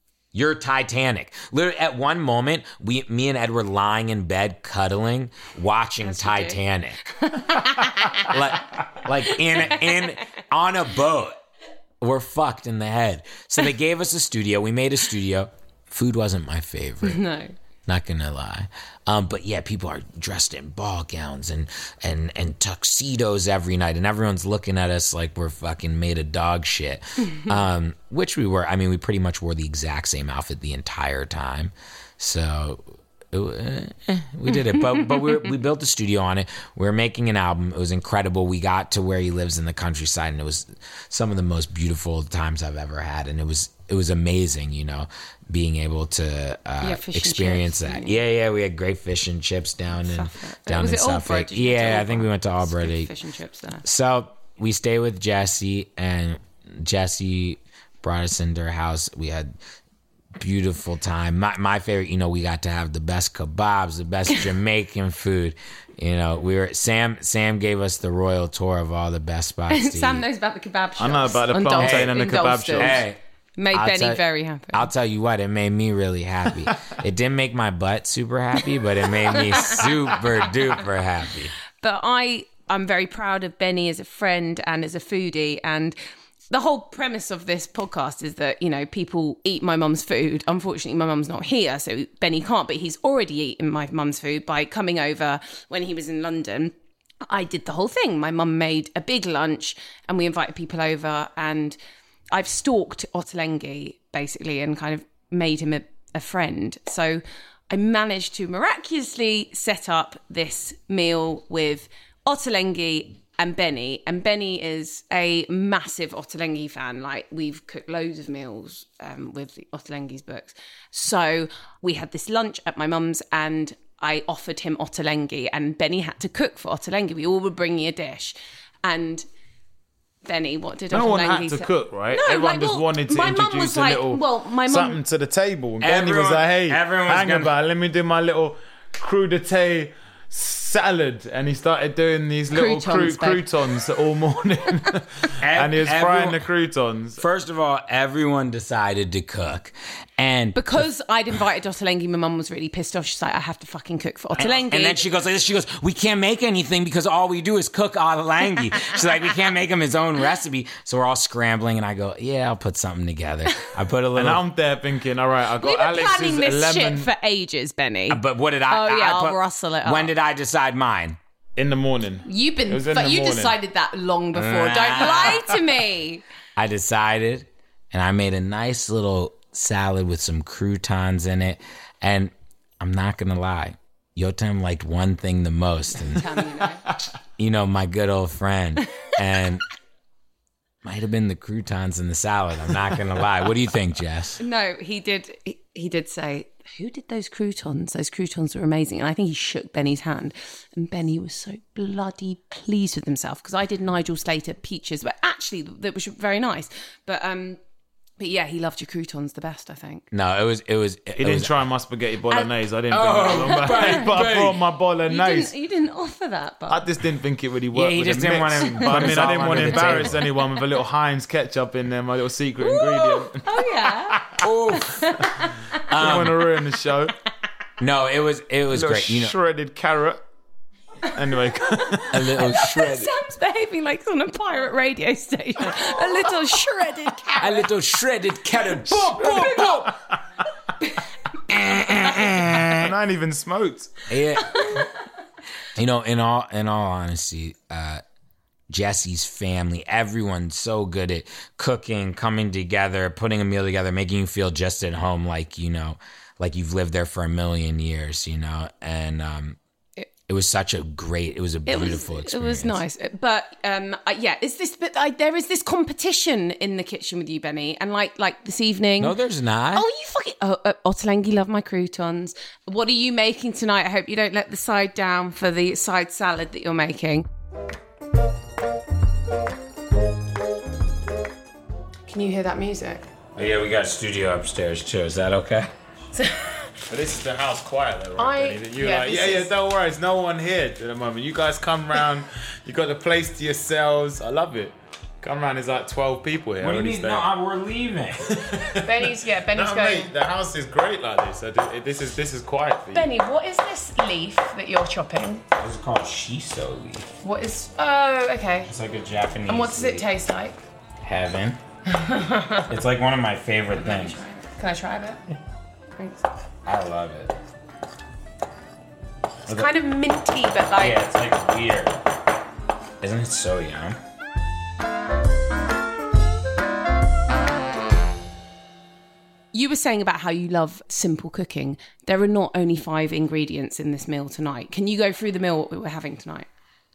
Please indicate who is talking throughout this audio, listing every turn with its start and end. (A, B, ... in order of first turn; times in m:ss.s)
0:00.3-0:07.0 A
0:06.0-0:08.4 B
0:08.3-0:11.4 A
0:12.0-0:17.2 A
0:17.0-0:17.6 B
0:17.9-0:53.1 A
0:46.8-0:48.2 B
0:50.0-0:53.8 B
0:53.8-0:59.5 A
1:00.4-1:10.3 A
1:09.7-1:13.0 B
1:11.0-1:13.0 C
1:11.8-1:12.2 A
1:12.7-1:13.2 A
1:13.6-1:14.9 B
1:13.7-1:21.6 A
1:19.3-1:19.9 B
1:21.8-1:26.0 B
1:26.5-1:36.7 B
1:37.2-1:41.8 B
1:42.3-2:09.3 B
2:10.2-2:15.0 B
2:10.9-2:27.2 C
2:15.8-2:17.6 A
2:22.5-2:23.6 B
2:25.4-2:26.4 A
2:27.2-2:30.9 A
2:30.6-2:35.0 B
2:34.4-2:44.4 A
2:44.2-2:47.1 C
2:45.6-2:50.1 B
2:48.1-2:51.2 A
2:51.6-2:53.6 C
2:52.2-2:56.2 B
2:54.3-2:55.5 A
2:56.6-3:06.4 A
3:06.1-3:06.8 B
3:07.4-3:09.7 A
3:10.8-3:14.4 A
3:14.4-3:27.6 B
3:28.2-3:30.1 B
3:30.1-3:31.5 A
3:31.2-3:35.5 C
3:32.9-3:34.6 A
3:33.3-3:34.3 B
3:35.0-3:36.9 B
3:36.7-3:44.5 C
3:37.7-3:40.3 A
3:38.7-3:40.6 B
3:42.6-3:45.9 B
3:44.3-3:45.1 A
3:45.9-3:46.5 A
3:46.0-3:47.2 C
3:47.8-3:49.3 A
3:48.7-3:50.2 C
3:51.1-3:52.2 C
3:51.7-3:57.7 B
3:52.1-3:53.1 A
3:57.4-3:59.9 A
3:59.0-3:59.7 C
3:59.2-3:59.9 B
4:01.5-4:02.9 A
4:02.6-4:03.9 C
4:04.1-4:04.8 A
4:04.6-4:04.9 B
4:05.8-4:08.0 A
4:08.7-4:19.6 A
4:20.3-4:22.8 A
4:21.7-4:29.2 B
4:29.0-4:29.9 A
4:29.8-4:37.3 B
4:42.1-4:43.0 B
4:43.4-4:45.7 A
4:46.2-4:46.7 B
4:46.9-4:57.3 C
4:48.2-4:49.5 B
4:56.6-4:58.6 A
4:58.2-5:03.1 C
4:58.8-5:00.1 B
5:02.9-5:05.4 B
5:05.5-5:07.1 A
5:07.2-5:08.7 B
5:08.7-5:10.0 A
5:09.5-5:10.6 B
5:11.0-5:11.6 A
5:11.9-5:12.7 B
5:12.7-5:14.2 A
5:13.8-5:15.2 B
5:16.0-5:16.2 B
5:16.6-5:17.4 A
5:19.5-5:21.0 B
5:20.8-5:22.0 A
5:23.0-5:24.0 A
5:29.5-5:36.5 B